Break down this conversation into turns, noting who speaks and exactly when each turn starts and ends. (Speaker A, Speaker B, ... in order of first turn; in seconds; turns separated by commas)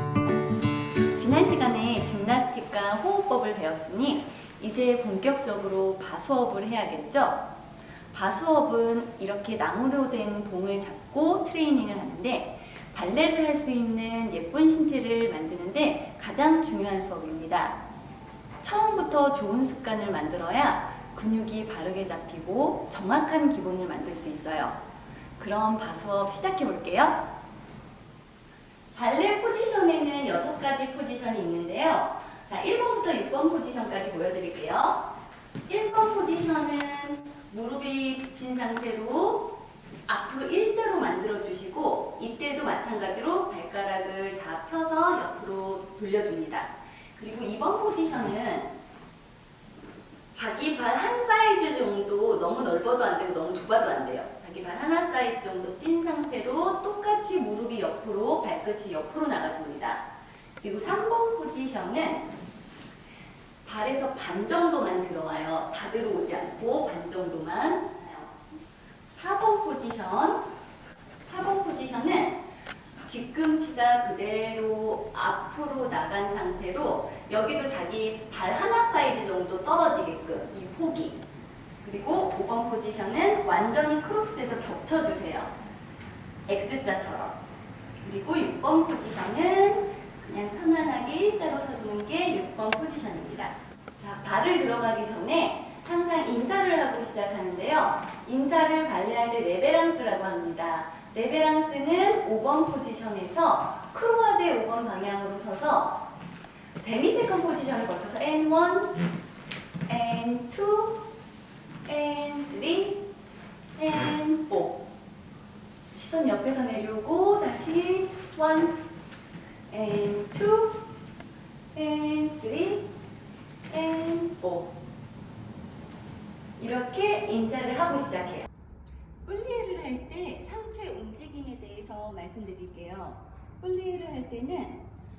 Speaker A: 1.1-7.5, Speaker A: 8.1-17.8, Speaker A: 18.6-24.8, Speaker A: 25.4-27.3, Speaker A: 28.9-35.1, Speaker A: 35.6-48.7, Speaker A: 50.3-60.1, Speaker A: 60.6-62.3, Speaker A: 63.6-68.4, Speaker A: 69.1-70.5, Speaker A: 71.2-72.4, Speaker A: 73.0-81.2, Speaker A: 81.8-85.5, Speaker A: 86.5-87.4, Speaker A: 88.0-106.1, Speaker A: 106.8-109.0, Speaker A: 109.9-111.1, Speaker A: 111.8-113.1, Speaker A: 113.8-114.8, Speaker A: 115.9-118.8, Speaker A: 119.7-120.9, Speaker A: 121.7-122.9, Speaker A: 123.7-124.8, Speaker A: 126.6-128.5, Speaker A: 129.2-134.9